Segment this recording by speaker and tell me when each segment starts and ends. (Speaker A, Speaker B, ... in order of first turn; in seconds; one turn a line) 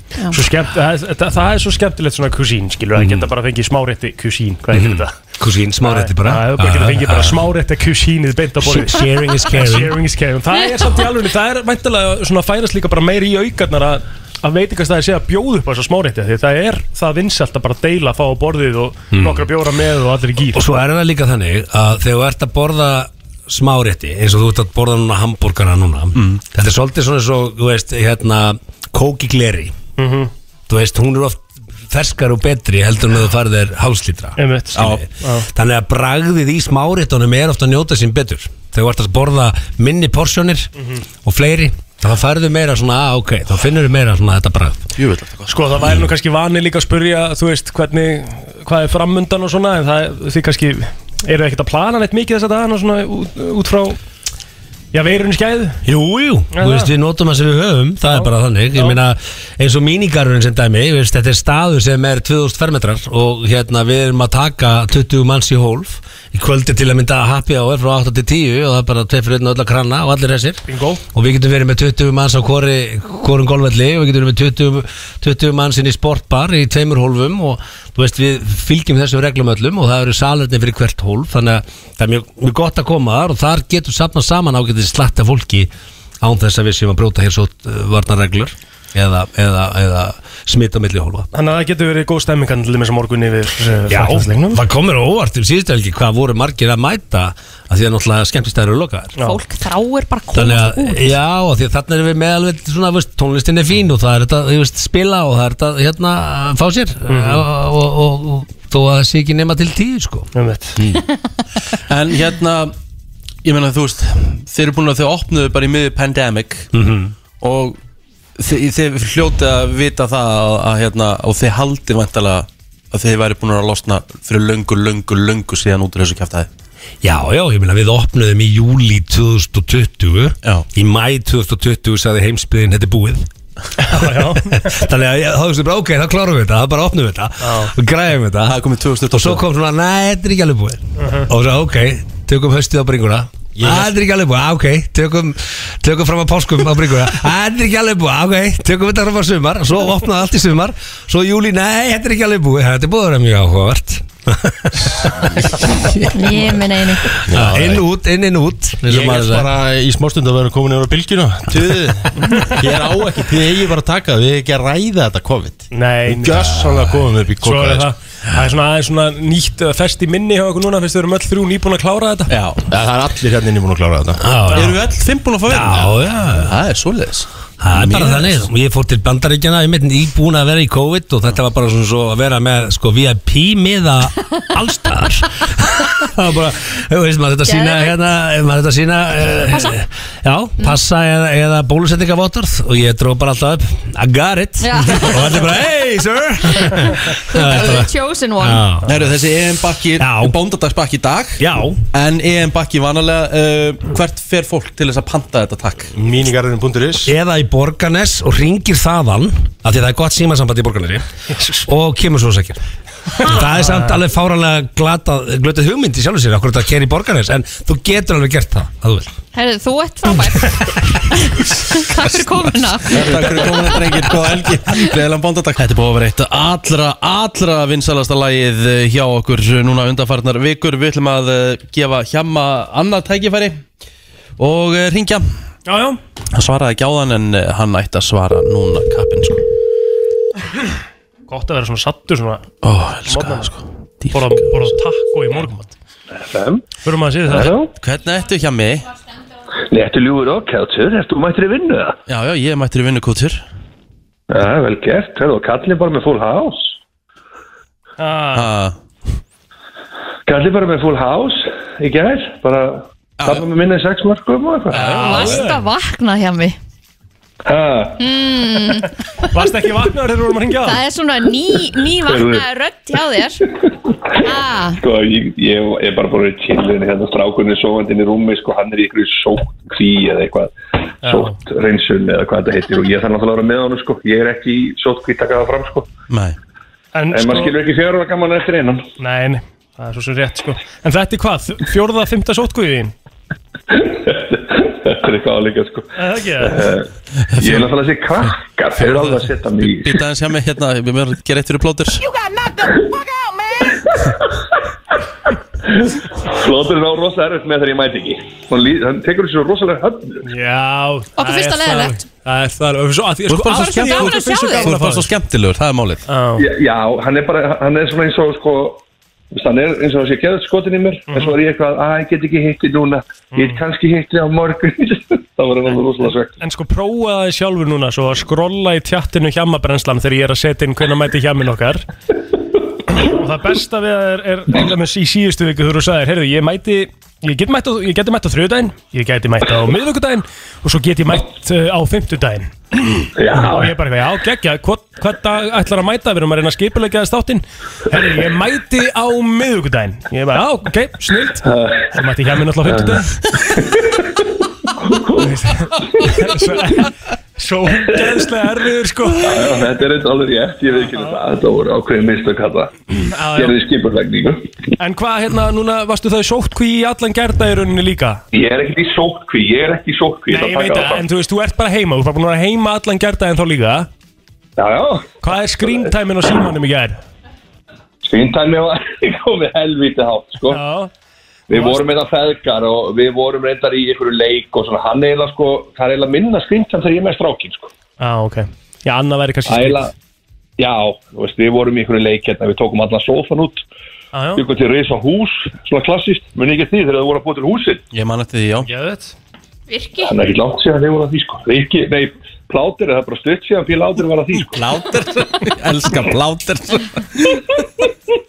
Speaker A: 0.3-5.2
Speaker B: 3.0-3.3
Speaker B: 4.7-7.5
Speaker A: 5.8-20.6
Speaker B: 8.6-10.0
Speaker B: 19.1-19.5
Speaker B: 20.5-29.8
Speaker C: 26.2-26.4
Speaker A: 30.0-30.3
Speaker B: 30.7-40.7
Speaker A: 34.4-35.5
Speaker C: 34.8-35.0
Speaker A: 40.8-41.0
Speaker B: 41.2-44.8
Speaker C: 45.0-45.6
Speaker A: 45.5-54.0
Speaker B: 45.8-46.1
Speaker A: 54.9-55.8
Speaker B: 55.9-85.7
Speaker A: 56.5-56.9
Speaker A: 58.1-59.0
Speaker A: 70.7-71.0
Speaker B: 86.2-91.3
Speaker A: 91.3-94.6
Speaker B: 93.9-99.2
Speaker D: 99.2-101.2
Speaker B: 100.3-111.0
Speaker A: 107.1-107.5
Speaker A: 110.3-110.8
Speaker C: 111.9-112.7
Speaker C: 113.4-116.7
Speaker B: 116.7-117.2
Speaker C: 117.4-117.8
Speaker C: 118.4-126.5
Speaker B: 127.0-133.3
Speaker A: 133.8-134.8
Speaker B: 133.9-138.6
Speaker A: 137.4-137.7
Speaker C: 138.4-139.4
Speaker B: 139.1-156.4
Speaker A: 141.0-141.3
Speaker E: 143.6-143.9
Speaker D: 156.1-157.1
Speaker E: 157.3-157.9
Speaker B: 157.3-159.5
Speaker E: 158.9-167.9
Speaker A: 165.7-166.7
Speaker B: 166.5-167.0
Speaker A: 167.4-172.3
Speaker C: 172.3-172.7
Speaker E: 172.7-174.2
Speaker B: 174.2-174.7
Speaker A: 174.5-174.8
Speaker C: 174.5-178.5
Speaker B: 175.5-176.6
Speaker B: 177.6-199.0
Speaker D: 187.5-187.9
Speaker D: 189.5-189.8
Speaker D: 194.6-195.6
Speaker D: 196.5-198.6
Speaker C: 198.9-205.9
Speaker B: 200.0-200.3
Speaker B: 201.4-201.8
Speaker E: 206.0-207.1
Speaker B: 207.1-211.0
Speaker A: 211.3-211.7
Speaker B: 211.7-212.6
Speaker B: 213.2-219.2
Speaker A: 213.2-214.0
Speaker D: 219.3-223.8
Speaker C: 222.9-233.6
Speaker C: 234.4-235.3
Speaker A: 235.7-236.0
Speaker C: 236.3-239.4
Speaker A: 241.3-242.5
Speaker C: 242.6-244.5
Speaker A: 243.1-243.5
Speaker A: 244.1-245.7
Speaker F: 246.1-246.7
Speaker A: 246.8-247.6
Speaker F: 247.3-247.7
Speaker C: 247.8-248.9
Speaker F: 249.7-252.0
Speaker C: 252.1-253.4
Speaker F: 254.3-256.8
Speaker A: 258.0-258.5
Speaker C: 258.3-258.8
Speaker F: 260.3-265.4
Speaker C: 263.2-263.5
Speaker A: 264.7-265.6
Speaker D: 264.7-266.6
Speaker F: 267.5-268.0
Speaker D: 268.0-269.0
Speaker A: 269.3-270.8
Speaker D: 270.6-273.4
Speaker F: 272.1-272.4
Speaker D: 274.2-274.8
Speaker F: 274.8-285.9
Speaker A: 281.0-281.4
Speaker C: 286.1-286.4
Speaker A: 286.9-287.6
Speaker F: 287.1-288.9
Speaker A: 289.0-292.9
Speaker F: 293.7-295.9
Speaker A: 296.0-296.7
Speaker F: 296.4-300.0
Speaker C: 297.3-297.7
Speaker C: 299.7-302.1
Speaker F: 303.6-304.3
Speaker F: 305.6-310.3
Speaker A: 310.2-315.1
Speaker D: 311.2-312.0
Speaker C: 313.3-316.0
Speaker D: 313.5-314.7
Speaker A: 316.1-316.5
Speaker F: 316.4-326.4
Speaker A: 321.1-321.4
Speaker A: 323.3-323.6
Speaker A: 326.4-331.9
Speaker A: 332.9-353.4
Speaker F: 343.2-343.8
Speaker F: 351.4-352.0
Speaker F: 352.7-354.3
Speaker F: 354.8-356.1
Speaker A: 355.2-359.5
Speaker F: 359.2-362.7
Speaker A: 360.7-361.2
Speaker A: 363.1-363.6
Speaker F: 363.3-364.5
Speaker A: 364.8-368.2
Speaker F: 368.3-371.1
Speaker A: 370.3-373.9
Speaker F: 374.6-375.8
Speaker A: 375.2-377.0
Speaker F: 378.0-380.6
Speaker A: 380.5-380.9
Speaker F: 381.5-387.7
Speaker A: 381.5-381.8
Speaker A: 388.0-389.9
Speaker F: 389.5-389.9
Speaker F: 390.6-393.6
Speaker A: 394.1-394.4
Speaker F: 394.4-397.9
Speaker C: 397.9-398.7
Speaker A: 398.6-399.1
Speaker D: 399.7-400.1
Speaker F: 400.0-404.6
Speaker C: 404.4-407.5